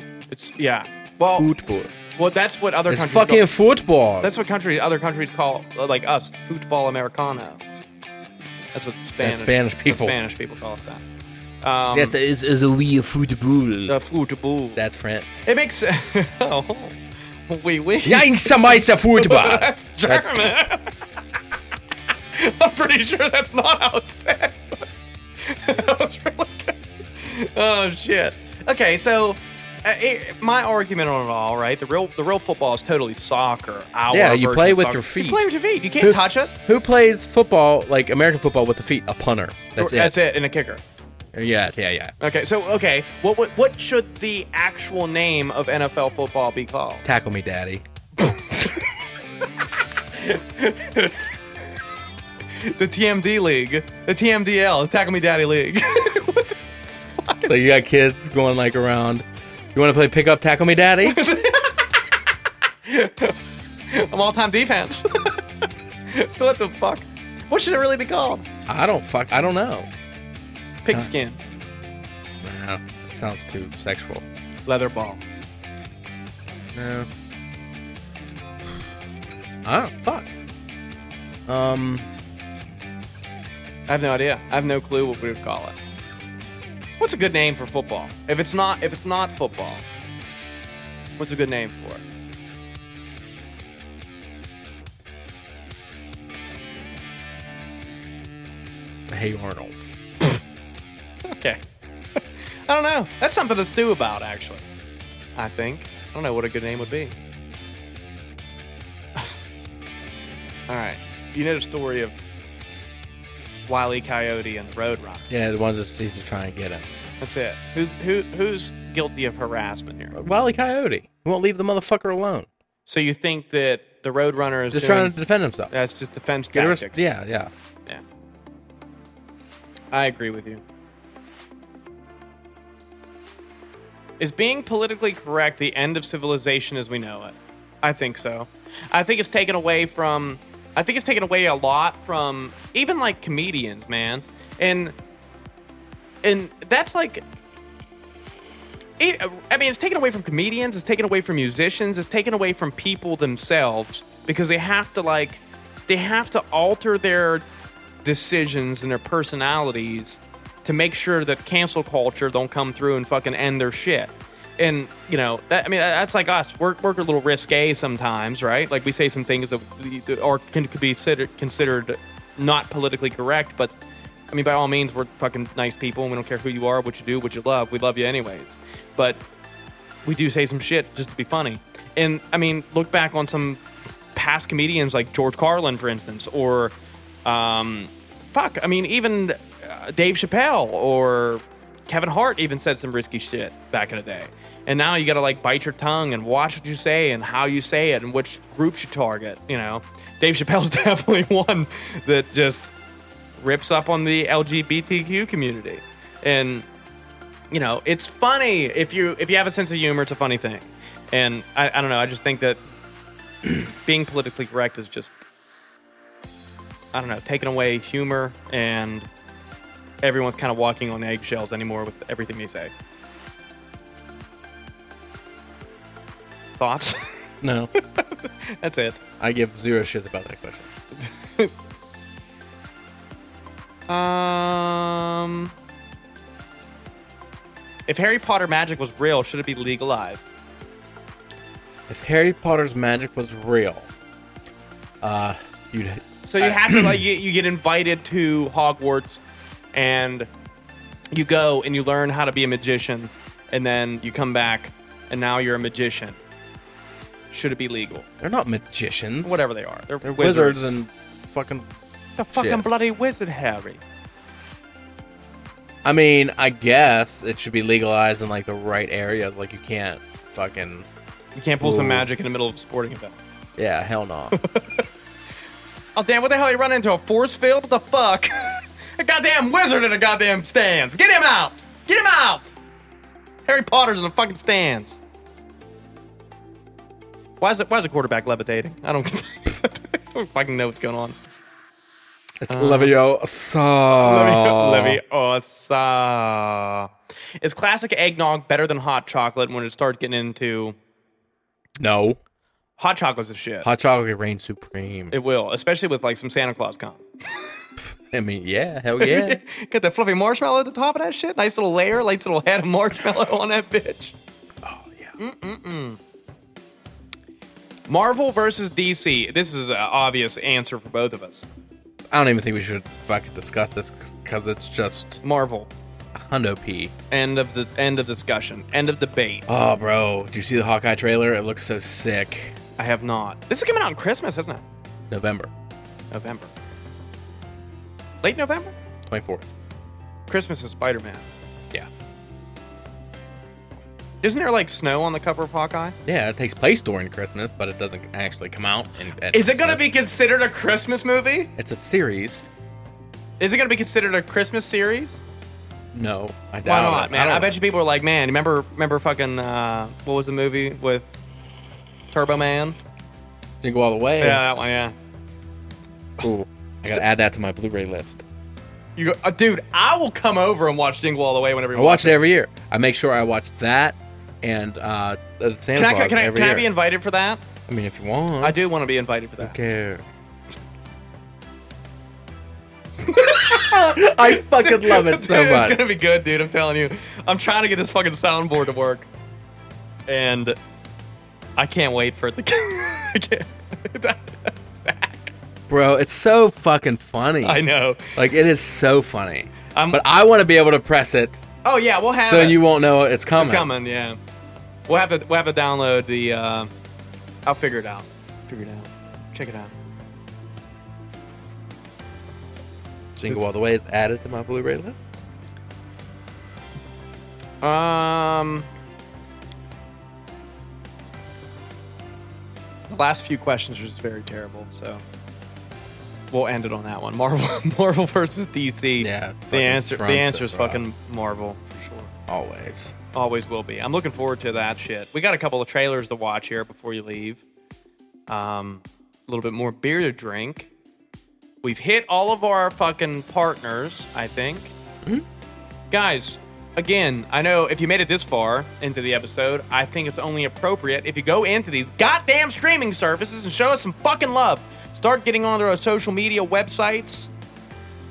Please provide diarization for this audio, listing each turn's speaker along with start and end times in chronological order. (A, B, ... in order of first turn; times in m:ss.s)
0:00.3-0:01.5 A
0:01.3-0:01.9 B
0:02.2-0:03.5 A
0:02.9-0:04.3 B
0:04.2-0:07.6 A
0:08.7-0:11.0 A
0:09.2-0:10.2 B
0:11.6-0:12.1 A
0:11.9-0:14.0 B
0:13.9-0:14.8 A
0:14.8-0:15.3 B
0:15.4-0:17.0 A
0:17.5-0:21.0 A
0:18.0-0:20.5 B
0:22.3-0:24.8 A
0:25.4-0:36.5 A
0:34.1-0:35.4 B
0:36.0-0:40.2 B
0:39.8-0:40.8 A
0:41.3-0:42.1 B
0:42.2-0:47.0 A
0:47.0-0:47.8 B
0:48.2-0:48.8 A
0:50.1-0:51.3 A
0:52.5-0:57.6 A
0:57.5-1:01.4 B
1:01.0-1:02.0 A
1:02.8-1:03.4 A
1:03.9-1:05.4 A
1:06.1-1:08.4 A
1:08.6-1:09.9 B
1:10.8-1:11.4 A
1:12.4-1:14.2 B
1:14.6-1:15.2 A
1:16.7-1:17.1 B
1:19.6-1:20.3 B
1:21.5-1:22.1 B
1:23.9-1:25.8 A
1:27.0-1:29.8 A
1:31.2-1:32.0 A
1:39.1-1:39.8 B
1:41.2-1:41.6 A
1:42.2-1:44.6 A
1:45.4-1:47.1 A
1:50.7-1:52.2 A
1:53.7-1:55.3 A
1:55.3-1:56.9 B
1:57.2-2:00.1 A
2:00.1-2:02.5 B
2:02.8-2:05.1 A
2:04.7-2:05.7 B
2:05.7-2:07.0 A
2:06.5-2:07.5 B
2:09.9-2:10.6 A
2:14.2-2:24.9 A
2:26.2-2:27.2 A
2:29.0-2:37.4 A
2:38.0-2:53.7 A
2:54.3-2:59.2 A
3:00.0-3:03.6 A
3:04.1-3:22.7 A
3:23.4-3:26.6 A
3:27.5-3:32.6 A
3:33.8-3:35.2 A
3:36.9-3:39.1 A
3:40.0-3:42.7 A
3:46.6-3:47.2 A
3:47.4-3:47.7 B
3:47.8-3:49.0 A
3:49.2-3:50.7 B
3:51.0-3:51.5 A
3:53.9-3:55.5 A
3:57.9-4:00.2 A
4:01.9-4:03.9 B
4:05.0-4:07.0 B
4:06.2-4:09.2 A
4:09.7-4:10.3 A
4:11.1-4:16.2 A
4:17.3-4:18.0 A
4:18.2-4:19.4 B
4:19.2-4:20.7 A
4:20.0-4:21.6 B
4:22.2-4:23.8 A
4:22.3-4:22.7 B
4:25.8-4:30.8 B
4:31.4-4:33.2 A
4:31.6-4:32.1 B
4:33.6-4:34.4 B
4:34.3-4:34.8 A
4:35.9-4:42.5 A
4:43.4-4:45.0 A
4:47.4-4:51.2 A
4:52.4-4:55.0 B
4:52.5-4:52.9 A
4:53.9-4:56.9 A
4:57.4-5:00.8 A
5:01.8-5:02.2 B
5:02.8-5:03.7 A
5:03.6-5:05.2 B
5:05.1-5:07.5 A
5:07.8-5:09.4 B
5:09.0-5:14.1 A
5:14.6-5:15.1 B
5:15.2-5:16.0 A
5:17.9-5:21.4 A
5:22.1-5:25.2 B
5:25.2-5:25.7 A
5:26.1-5:26.9 B
5:27.1-5:29.4 A
5:29.5-5:32.6 B
5:32.8-5:34.6 A
5:35.1-5:35.5 B
5:36.1-5:36.5 A
5:38.2-5:38.7 A
5:39.1-5:39.5 B
5:40.3-5:41.3 A
5:44.2-5:46.0 A
5:46.0-5:49.9 B
5:49.3-5:51.5 A
5:51.6-5:52.5 B
5:53.4-5:55.2 A
5:55.9-5:57.6 B
5:56.6-6:01.1 A
6:02.1-6:02.8 A
6:03.6-6:04.4 B
6:04.2-6:04.9 A
6:06.2-6:08.2 B
6:09.0-6:12.2 A
6:11.7-6:16.7 B
6:15.7-6:17.4 A
6:17.7-6:18.6 B
6:18.4-6:19.6 A
6:19.4-6:20.0 B
6:23.0-6:29.1 A
6:23.1-6:25.9 B
6:30.1-6:30.6 A
6:31.6-6:35.3 A
6:35.7-6:41.4 B
6:37.4-6:38.2 A
6:39.7-6:40.0 A
6:41.6-6:42.6 A
6:42.2-6:43.7 B
6:43.4-6:44.2 A
6:44.9-6:46.7 A
6:47.4-6:49.7 A
6:53.2-6:55.0 B
6:57.6-6:58.7 A
7:02.9-7:05.0 A
7:06.3-7:12.1 A
7:09.0-7:10.8 B
7:12.3-7:12.9 B
7:13.1-7:17.4 A
7:18.3-7:20.7 A
7:21.6-7:24.7 A
7:25.9-7:37.3 A